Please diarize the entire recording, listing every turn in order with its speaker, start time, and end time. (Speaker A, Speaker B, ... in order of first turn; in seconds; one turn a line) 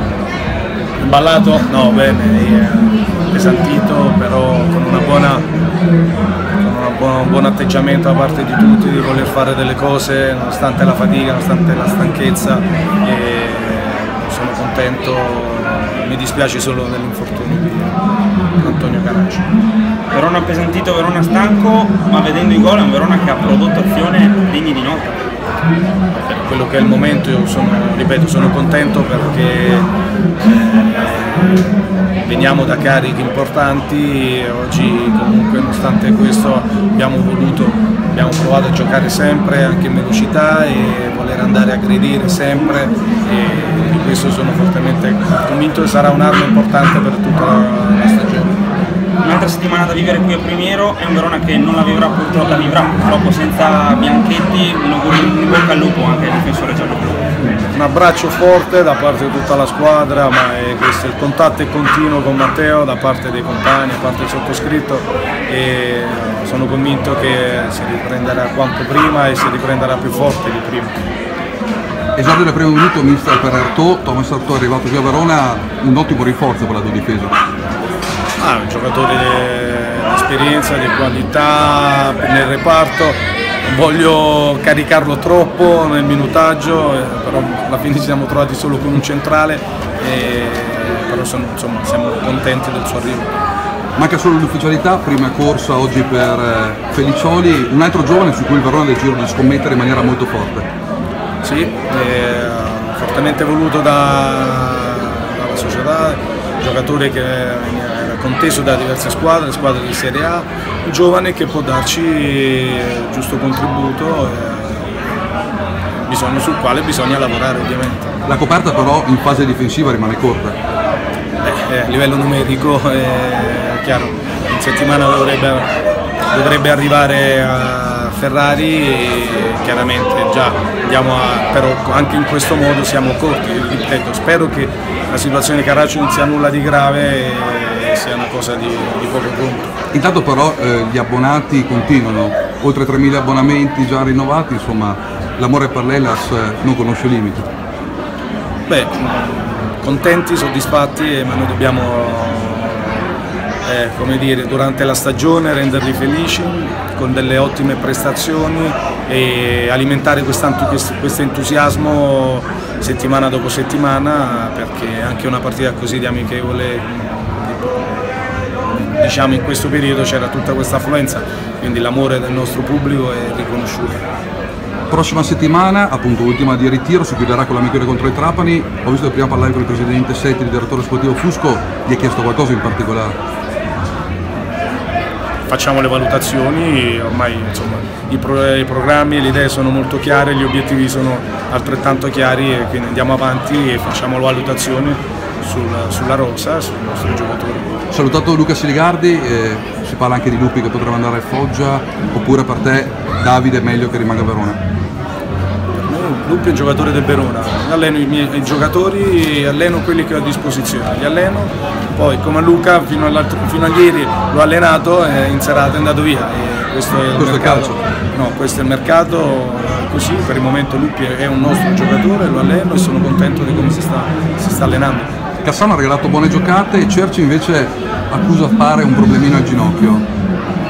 Speaker A: 1.0-5.5
Speaker A: 6.6-17.9
Speaker A: 18.6-19.5
Speaker B: 20.1-25.2
Speaker A: 26.2-48.5
Speaker B: 49.2-57.2
Speaker A: 57.7-71.0
Speaker C: 72.1-77.4
Speaker A: 78.4-93.3
Speaker C: 94.0-100.7
Speaker A: 101.4-115.0
Speaker A: 116.0-118.1
Speaker C: 118.2-120.6
Speaker A: 121.4-125.7
Speaker A: 126.3-139.7
Speaker C: 139.9-147.5
Speaker A: 148.7-153.1
Speaker A: 153.6-168.1
Speaker A: 168.7-174.1
Speaker C: 174.9-183.2
Speaker A: 185.5-197.8
Speaker C: 197.9-204.6
Speaker A: 205.7-225.1
Speaker C: 217.2-217.8
Speaker C: 225.4-230.1